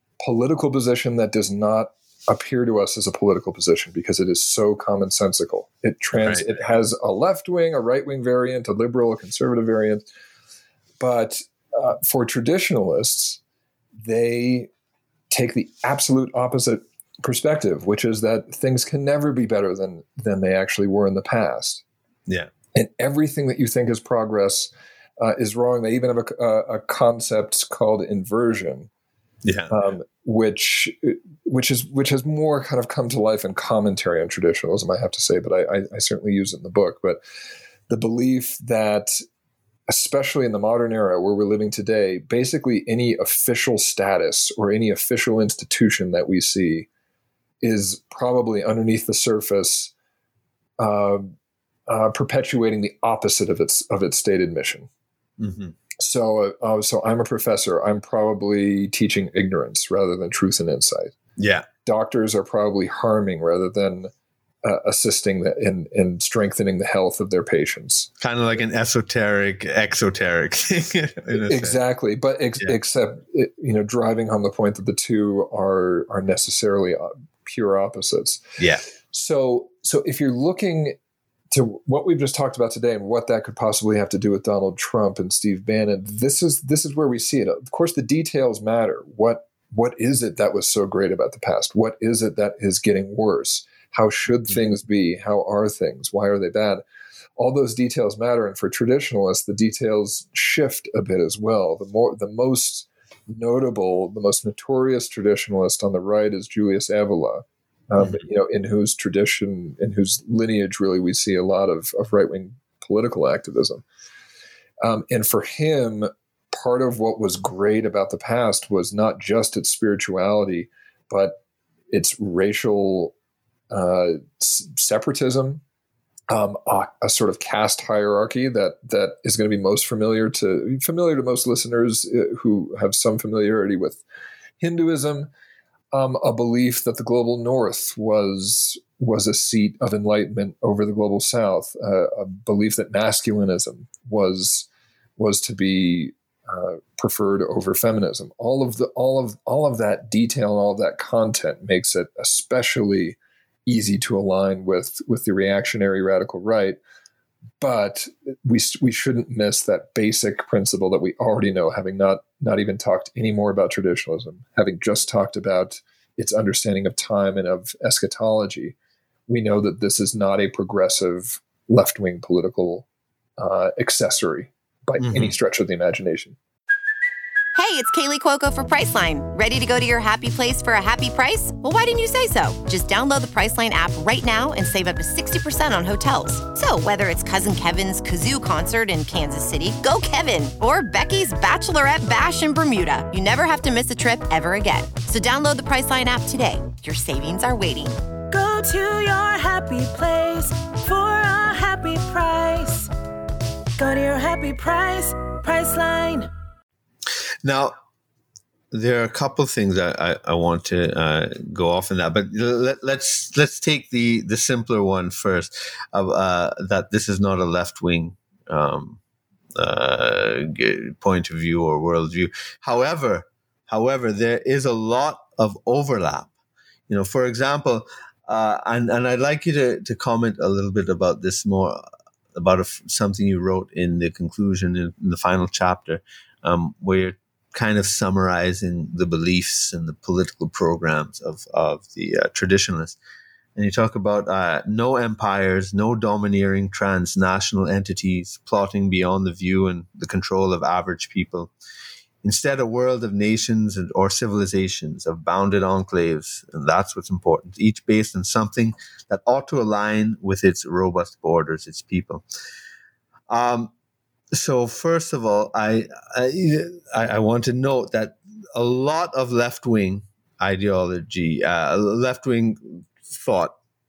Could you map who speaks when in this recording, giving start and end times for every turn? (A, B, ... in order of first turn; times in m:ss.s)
0:00.2-0:10.0 A
0:06.1-0:06.4 B
0:11.0-0:13.4 A
0:14.0-0:14.7 A
0:15.3-0:21.8 A
0:22.7-0:28.9 A
0:29.4-0:29.7 B
0:29.7-0:37.2 A
0:37.9-0:39.1 A
0:39.9-0:46.9 A
0:47.6-0:49.9 A
0:50.8-0:51.3 A
0:51.9-0:54.9 A
0:55.4-0:55.8 B
0:56.0-1:01.1 A
1:01.4-1:01.6 B
1:01.8-1:04.1 A
1:04.6-1:08.1 A
1:08.2-1:11.8 B
1:11.3-1:18.4 A
1:18.6-1:18.8 B
1:19.1-1:21.0 A
1:21.5-1:36.8 A
1:37.4-1:53.8 A
1:48.0-1:48.2 B
1:54.8-2:01.4 A
2:01.9-2:03.1 A
2:03.7-2:05.6 A
2:06.3-2:14.0 A
2:14.6-2:15.3 A
2:15.9-2:36.8 A
2:37.6-2:48.7 A
2:49.3-2:52.8 A
2:53.4-2:56.4 A
2:55.0-2:55.3 B
2:57.5-3:18.0 C
3:18.3-3:22.9 D
3:23.8-3:26.3 D
3:27.4-3:27.7 B
3:28.7-3:39.0 B
3:39.6-3:46.3 B
3:46.9-3:51.8 B
3:52.3-4:03.0 B
4:03.6-4:11.5 B
4:12.2-4:22.2 B
4:23.3-4:23.7 B
4:24.3-4:33.6 B